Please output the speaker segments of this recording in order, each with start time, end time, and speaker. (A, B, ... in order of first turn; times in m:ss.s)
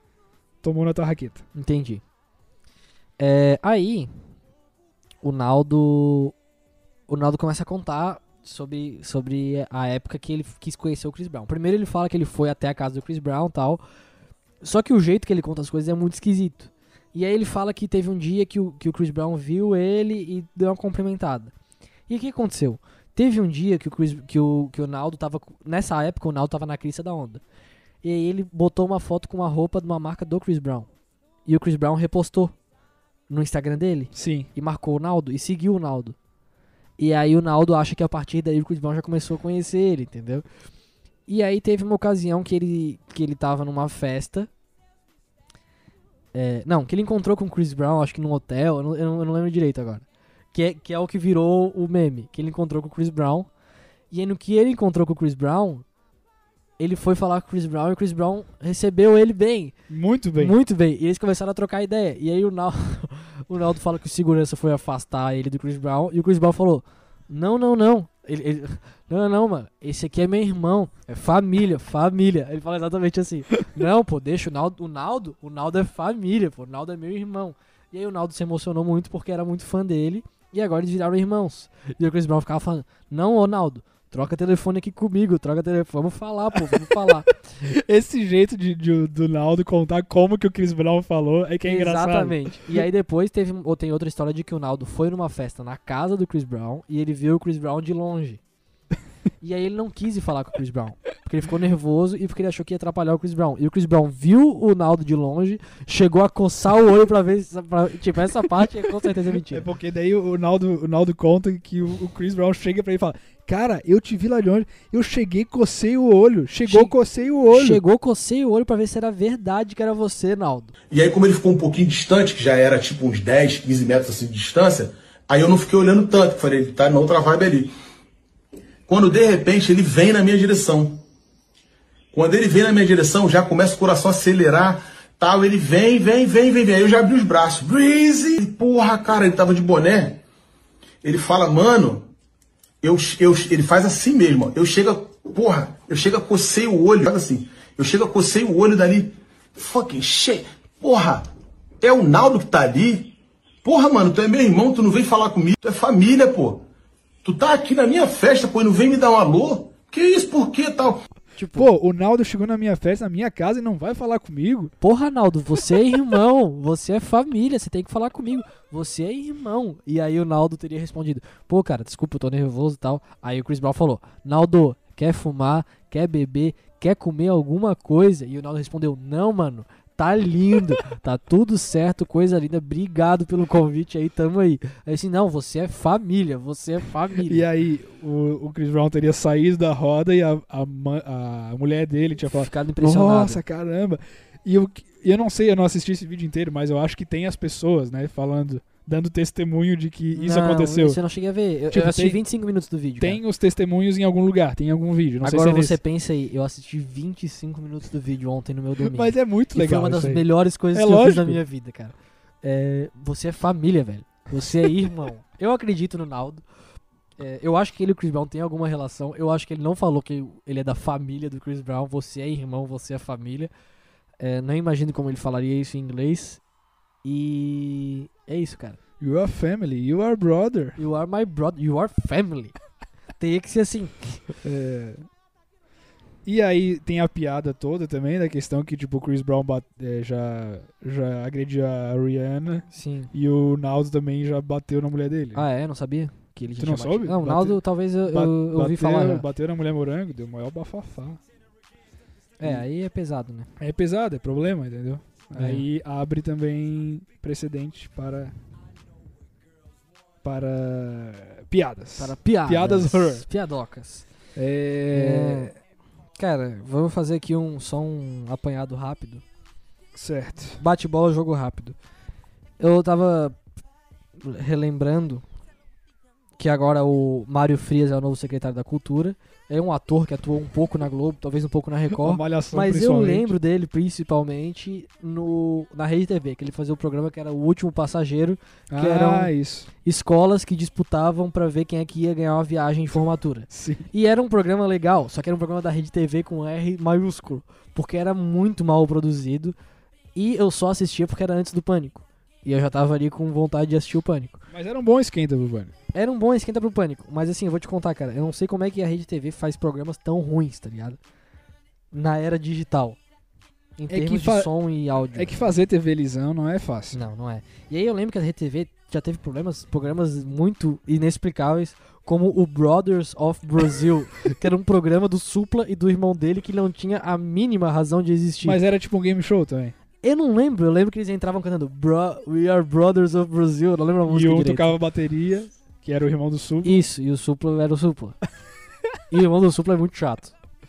0:00.6-0:01.4 A
0:01.5-0:02.0 B
0:03.2-0:04.1 B
0:05.2-0:06.3 B
0:07.1-0:13.8 B
0:14.6-0:21.5 B
0:22.1-0:27.4 B
0:28.0-0:30.9 B
0:31.4-0:32.5 B
0:33.3-0:36.2 B
0:34.1-0:34.5 A
0:37.0-0:40.4 B
0:41.3-0:44.5 B
0:46.3-0:53.5 B
0:54.1-0:55.8 B
0:56.8-0:59.7 B
0:59.9-1:00.6 A
1:00.4-1:27.3 B
1:26.5-1:32.8 A
1:31.6-1:38.4 B
1:39.4-1:49.6 B
1:49.5-1:57.8 A
1:56.6-1:56.9 B
1:57.5-2:00.7 B
2:00.9-2:07.7 C
2:08.9-2:11.0 C
2:12.1-2:20.2 C
2:21.0-2:22.0 C
2:22.8-2:31.2 C
2:31.8-2:36.6 C
2:37.2-2:41.0 C
2:41.4-2:41.7 B
2:41.5-2:44.7 A
2:44.8-3:07.4 B
3:07.2-3:21.0 A
3:12.3-3:13.4 B
3:20.1-3:23.2 B
3:21.7-3:22.2 A
3:23.0-3:25.8 A
3:25.2-3:36.4 B
3:28.8-3:31.4 A
3:37.2-3:43.5 B
3:44.2-3:46.4 B
3:47.0-3:48.8 B
3:49.0-3:50.8 A
3:50.8-3:52.5 B
3:53.2-3:54.2 B
3:54.4-3:55.0 A
3:56.2-4:05.4 A
4:02.7-4:03.1 B
4:05.3-4:09.2 B
4:06.6-4:11.2 A
4:12.4-4:13.5 B
4:13.6-4:18.3 A
4:15.4-4:15.6 B
4:20.2-4:23.2 A
4:22.0-4:24.0 B
4:24.3-4:25.5 A
4:24.9-4:25.5 B
4:26.2-4:29.2 B
4:29.9-4:30.6 A
4:30.6-4:31.8 B
4:32.6-4:33.4 B
4:34.2-4:35.2 B
4:36.4-4:49.3 B
4:41.9-4:43.3 A
4:48.7-4:49.7 A
4:49.8-4:59.5 B
4:53.5-4:53.8 A
5:00.1-5:04.4 B
5:04.5-5:05.7 A
5:05.9-5:11.0 B
5:11.9-5:13.0 B
5:13.8-5:15.4 B
5:13.9-5:14.5 A
5:15.0-5:17.0 A
5:16.9-5:28.6 B
5:28.4-5:29.7 A
5:30.0-5:34.8 B
5:34.0-5:36.8 A
5:36.6-5:38.2 B
5:39.1-5:40.3 B